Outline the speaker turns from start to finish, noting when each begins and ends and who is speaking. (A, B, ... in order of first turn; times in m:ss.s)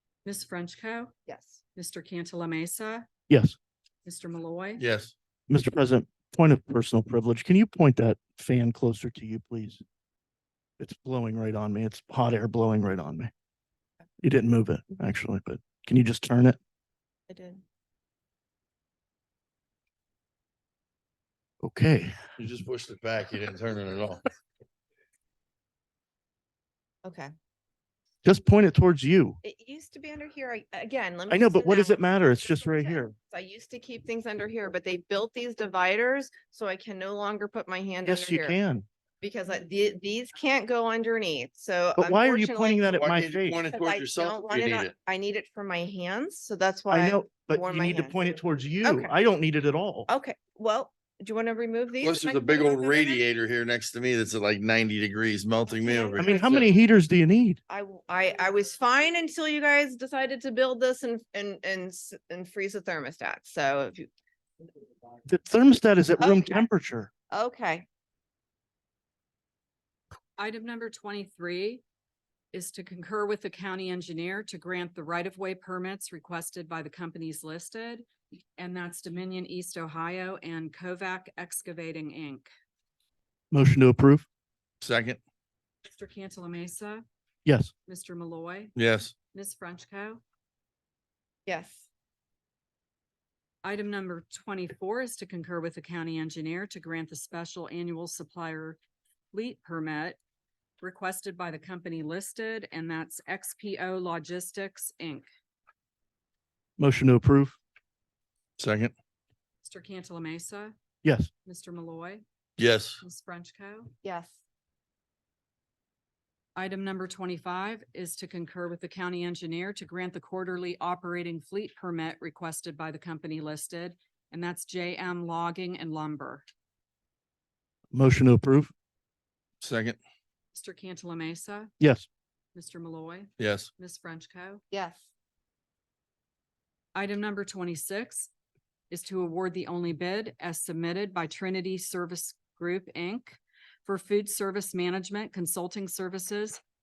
0:00.2-0:01.1 A
0:01.2-0:01.6 B
0:01.7-0:03.2 A
0:03.3-0:03.6 C
0:04.0-0:04.8 A
0:04.8-0:05.1 D
0:05.5-0:09.8 C
0:10.8-0:13.3 C
0:14.2-0:16.6 C
0:17.3-0:17.6 B
0:21.6-0:22.1 C
0:22.4-0:24.2 D
0:27.0-0:27.3 B
0:28.2-0:29.4 C
0:29.4-0:38.6 B
0:31.3-0:33.1 C
0:38.0-0:38.8 C
0:39.2-0:48.2 B
0:42.0-0:43.6 C
0:42.9-0:44.9 D
0:46.9-0:50.1 C
0:48.8-0:49.1 B
0:50.1-0:53.2 B
0:52.0-0:56.7 D
0:55.7-0:56.8 B
0:56.2-0:57.6 C
0:57.7-1:04.1 B
1:05.2-1:07.1 C
1:06.2-1:06.6 B
1:07.3-1:07.8 B
1:10.4-1:11.8 A
1:12.5-1:18.0 A
1:18.6-1:22.5 A
1:23.5-1:24.2 C
1:24.8-1:25.2 D
1:25.8-1:27.0 A
1:27.4-1:27.7 C
1:27.8-1:28.7 A
1:28.8-1:29.1 D
1:29.3-1:30.2 A
1:31.4-1:31.9 B
1:33.6-1:38.8 A
1:39.3-1:40.2 A
1:40.8-1:45.3 A
1:46.8-1:47.6 C
1:48.6-1:48.9 D
1:49.6-1:50.7 A
1:51.0-1:51.3 C
1:51.4-1:52.2 A
1:52.6-1:53.0 D
1:53.0-1:53.9 A
1:54.0-1:54.4 B
1:56.5-2:06.4 A
2:07.9-2:08.7 C
2:09.6-2:10.0 D
2:10.5-2:11.7 A
2:11.8-2:12.1 C
2:12.5-2:14.6 A
2:13.4-2:13.7 D
2:14.7-2:15.1 B
2:16.9-2:18.3 A
2:18.9-2:26.6 A